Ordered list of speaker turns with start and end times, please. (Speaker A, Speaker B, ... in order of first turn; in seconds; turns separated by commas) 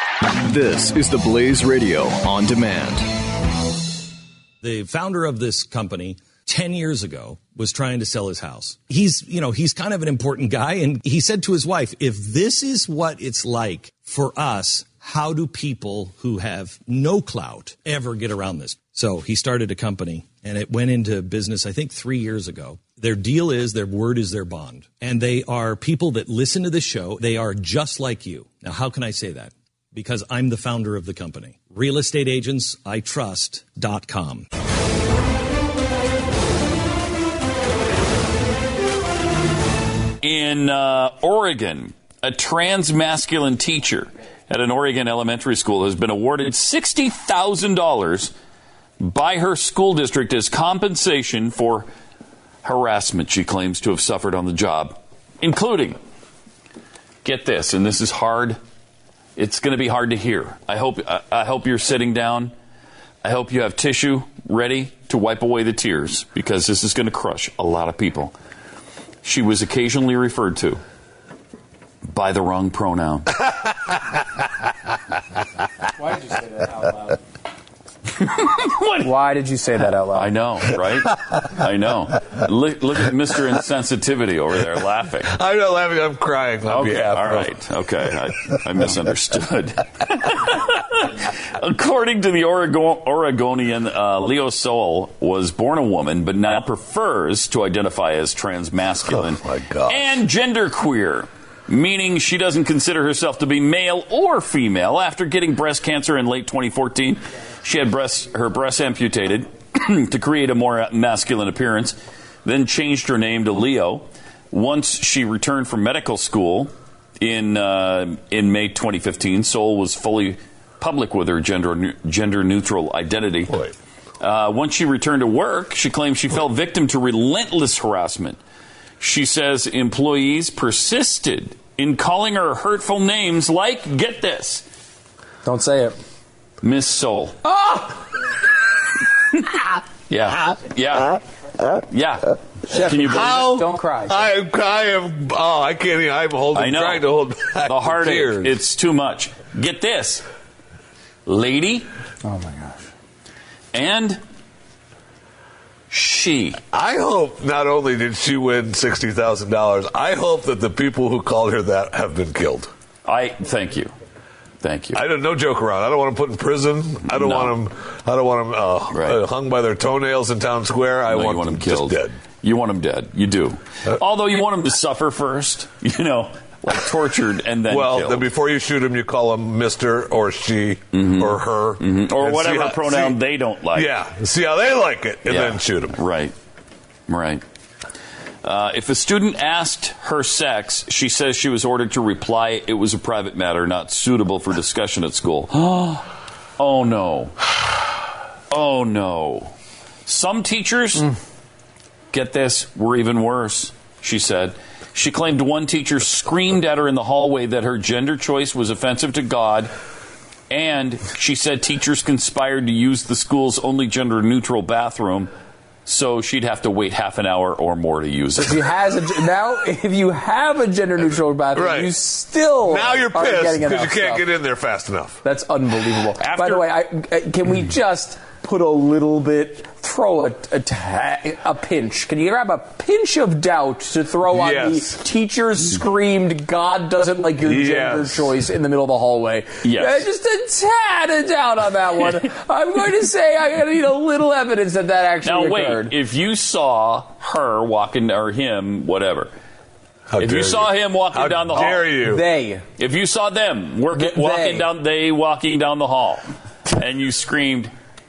Speaker A: 0.3-3.1, Speaker B: 4.6-34.5, Speaker C: 40.2-48.3, Speaker C: 49.0-51.9, Speaker C: 52.6-56.0, Speaker C: 57.2-58.6, Speaker C: 59.4-62.5, Speaker C: 63.2-68.3, Speaker C: 69.2-70.8, Speaker C: 72.0-73.4, Speaker C: 78.2-79.1, Speaker D: 79.0-80.3, Speaker C: 80.1-85.3, Speaker E: 85.3-87.5, Speaker C: 86.7-123.6, Speaker E: 99.1-100.2, Speaker C: 124.2-128.4, Speaker C: 129.0-134.6, Speaker D: 135.4-135.9, Speaker C: 136.6-137.4, Speaker D: 137.4-138.0, Speaker C: 140.1-141.2, Speaker C: 141.9-143.3, Speaker D: 142.7-144.3, Speaker E: 143.0-148.6, Speaker C: 146.5-147.1, Speaker C: 147.6-150.2, Speaker C: 151.2-151.9, Speaker D: 152.2-152.8, Speaker C: 153.7-154.2, Speaker C: 155.9-156.6, Speaker E: 156.7-162.7, Speaker C: 163.0-163.9, Speaker C: 164.6-165.0, Speaker E: 164.9-172.2, Speaker C: 167.1-167.6, Speaker C: 168.9-169.2, Speaker C: 171.1-178.3, Speaker E: 177.7-183.2, Speaker C: 180.9-183.9, Speaker E: 183.7-186.0, Speaker C: 185.2-186.3, Speaker C: 187.1-187.4, Speaker C: 188.4-197.5, Speaker C: 198.5-199.5, Speaker C: 200.1-201.1, Speaker C: 202.1-209.7, Speaker C: 210.5-215.3, Speaker C: 215.8-218.6, Speaker D: 218.3-224.2, Speaker E: 221.5-221.9, Speaker E: 222.6-225.2, Speaker D: 225.2-245.9, Speaker C: 226.2-226.6, Speaker E: 234.3-234.9, Speaker E: 237.4-238.3, Speaker C: 239.6-240.0, Speaker C: 245.2-249.3, Speaker E: 250.1-252.2, Speaker C: 250.2-252.0, Speaker D: 252.0-252.7, Speaker C: 252.8-257.7, Speaker D: 253.9-254.7